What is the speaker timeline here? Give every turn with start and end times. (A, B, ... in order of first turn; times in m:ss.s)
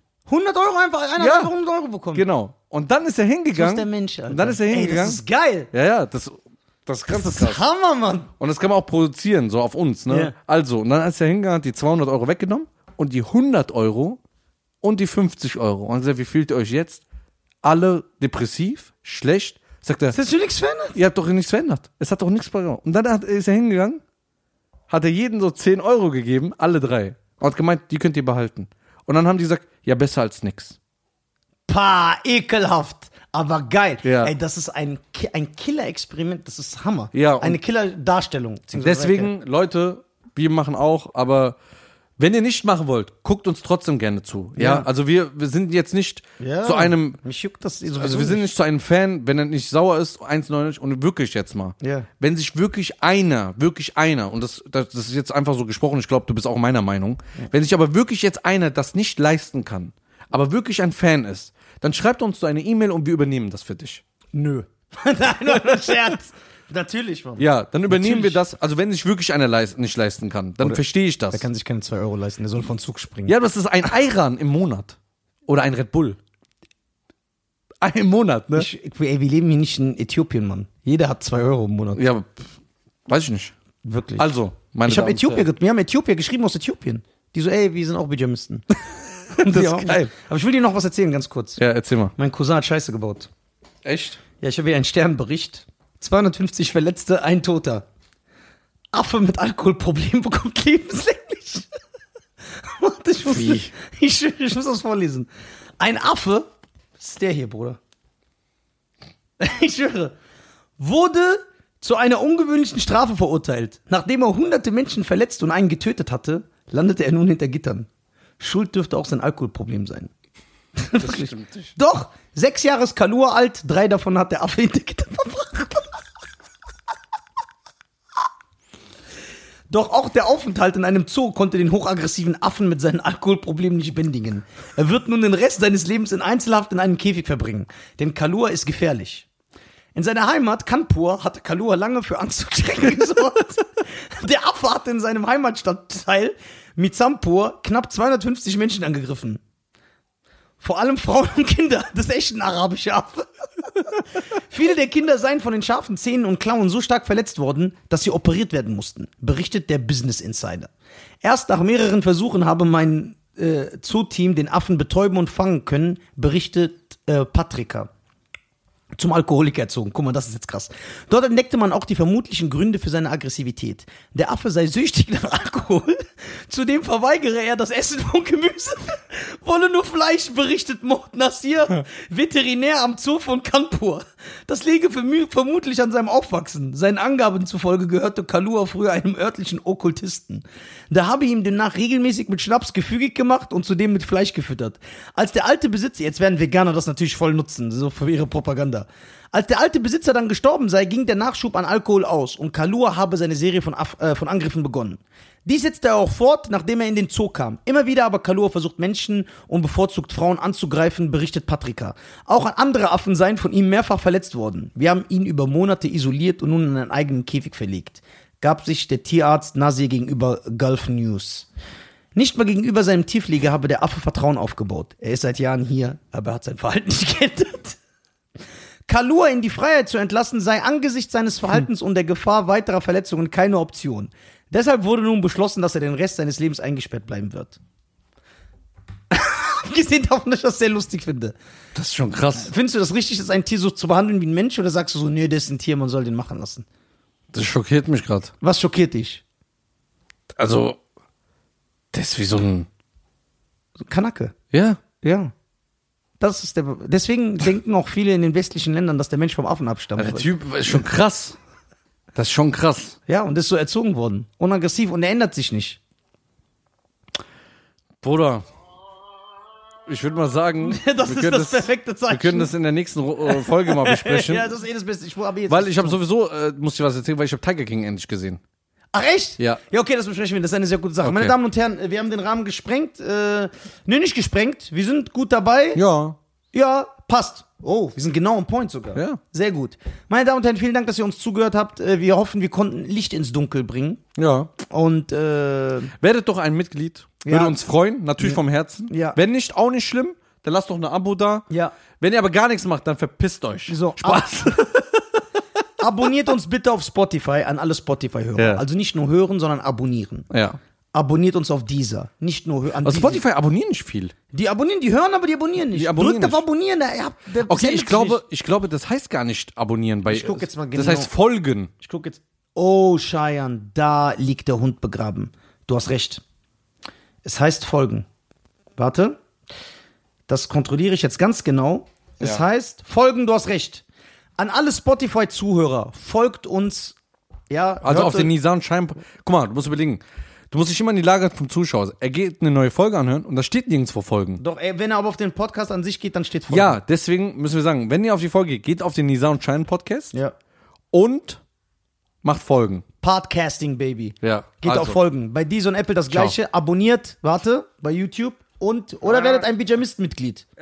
0:00.3-0:02.2 A
0:01.2-0:01.5 B
0:02.1-0:05.2 B
0:03.6-0:05.7 A
0:05.7-0:07.6 B
0:07.1-0:08.3 A
0:08.4-0:14.2 B
0:10.1-0:10.3 A
0:14.8-0:17.0 B
0:17.6-0:20.2 B
0:20.1-0:21.0 A
0:21.0-0:24.0 B
0:24.9-0:30.8 B
0:31.7-0:39.3 A
0:34.0-0:34.3 B
0:37.1-0:37.6 B
0:38.8-0:41.6 B
0:42.2-0:47.2 B
0:44.6-0:44.9 A
0:46.4-0:48.5 A
0:47.9-1:04.0 B
0:51.8-0:52.1 A
1:04.3-1:08.4 A
1:05.5-1:06.0 B
1:07.4-1:11.4 B
1:10.6-1:13.3 A
1:13.3-1:16.2 B
1:17.8-1:18.7 B
1:18.5-1:22.0 A
1:22.0-1:22.5 B
1:23.1-1:23.5 B
1:23.8-1:24.3 A
1:24.2-1:25.5 B
1:24.9-1:28.7 A
1:29.3-1:31.6 A
1:29.4-1:30.1 B
1:31.6-1:32.1 B
1:32.2-1:33.3 A
1:33.8-1:34.2 B
1:34.4-1:37.8 A
1:38.9-1:41.7 A
1:42.6-1:45.3 A
1:43.3-1:43.7 B
1:45.8-1:46.5 A
1:47.0-1:47.8 A
1:49.4-1:50.1 A
1:50.8-1:57.9 A
1:58.4-2:00.1 A
2:00.8-2:06.0 A
2:01.0-2:01.7 B
2:09.7-2:19.3 A
2:20.0-2:29.4 A
2:30.6-2:40.7 A
2:41.2-2:47.9 A
2:49.0-3:41.5 A
3:42.2-3:47.8 A
3:48.9-3:57.6 A
3:59.1-4:01.4 A
4:01.8-4:02.5 B
4:02.4-4:06.6 A
4:07.3-4:08.3 B
4:08.4-4:09.2 A
4:10.4-4:10.8 B
4:11.9-4:12.7 B
4:13.9-4:14.4 A
4:14.5-4:14.8 B
4:15.0-4:15.3 A
4:16.2-4:20.8 A
4:20.0-4:21.4 B
4:22.2-4:23.0 B
4:23.1-4:25.8 A
4:28.0-4:28.4 B
4:29.9-4:34.5 B
4:30.6-4:32.5 A
4:33.2-4:36.0 A
4:35.5-4:38.4 B
4:38.9-4:45.8 A
4:41.0-4:41.4 B
4:45.8-4:46.2 B
4:46.5-4:54.0 A
4:54.2-4:54.5 B
4:54.7-4:55.9 A
4:56.0-5:01.5 B
4:57.2-4:57.6 A
4:58.2-4:59.2 A
5:01.5-5:01.8 A
5:02.0-5:05.0 B
5:03.7-5:04.6 A
5:05.8-5:10.3 A
5:08.4-5:08.6 B
5:10.3-5:10.6 B
5:10.9-5:13.2 A
5:12.8-5:14.1 B
5:14.3-5:18.2 A
5:15.7-5:16.4 B
5:17.4-5:21.7 B
5:20.1-5:21.1 A
5:21.8-5:26.2 A
5:27.2-5:28.1 A
5:28.8-5:29.2 A
5:30.3-5:33.8 A
5:34.4-5:37.0 A
5:37.5-5:38.3 A
5:37.8-5:44.4 B
5:44.4-5:46.8 A
5:46.5-5:50.1 B
5:50.9-5:51.4 B
5:52.2-5:52.8 B
5:53.0-6:00.5 A
5:54.2-5:55.0 B
5:56.1-5:56.4 B